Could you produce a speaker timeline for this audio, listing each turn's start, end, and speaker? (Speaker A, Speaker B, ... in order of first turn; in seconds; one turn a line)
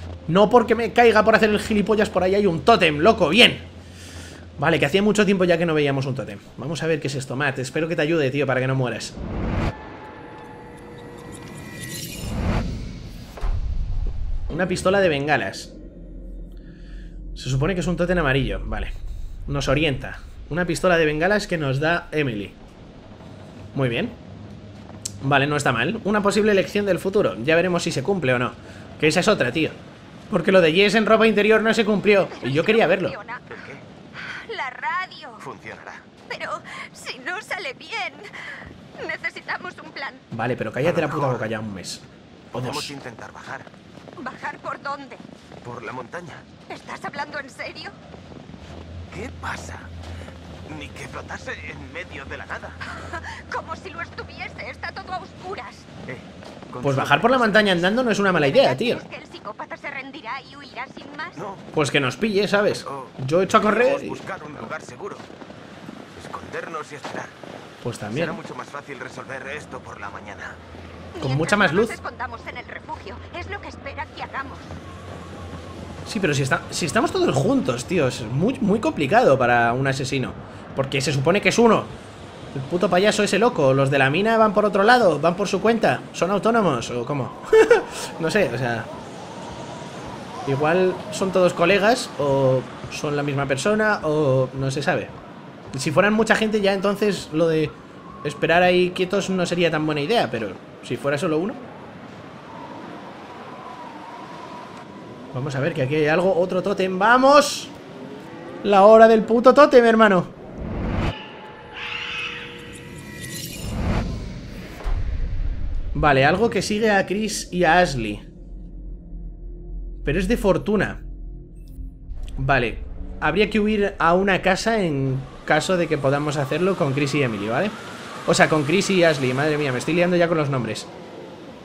Speaker A: 0.3-3.7
Speaker A: 4.6-9.2
Speaker A: 14.5-15.7
Speaker A: 17.3-18.9
Speaker A: 19.5-22.6
Speaker A: 23.7-24.2
Speaker A: 25.2-33.1
Speaker B: 32.3-33.6
Speaker C: 33.5-33.8
Speaker B: 34.1-35.4
Speaker C: 35.4-36.1
Speaker B: 36.3-40.2
Speaker A: 40.3-42.9
Speaker C: 40.8-41.5
Speaker C: 42.5-43.7
Speaker B: 44.2-45.2
Speaker C: 45.6-46.5
Speaker B: 46.7-48.0
Speaker C: 49.1-49.9
Speaker C: 50.7-52.8
Speaker B: 52.9-55.9
Speaker C: 56.1-57.6
Speaker A: 56.8-59.0
Speaker B: 58.2-61.4
Speaker C: 61.3-61.7
Speaker A: 61.7-64.2
Speaker C: 62.7-65.3
Speaker C: 66.1-67.3
Speaker A: 67.8-68.4
Speaker C: 68.1-70.6
Speaker B: 71.1-74.7
Speaker A: 71.2-72.0
Speaker A: 76.0-81.9
Speaker A: 82.5-88.9
Speaker A: 90.4-95.1
Speaker A: 95.7-101.6
Speaker A: 105.3-107.7
Speaker A: 108.6-110.3
Speaker A: 115.9-118.2
Speaker A: 120.0-121.0
Speaker A: 122.4-130.9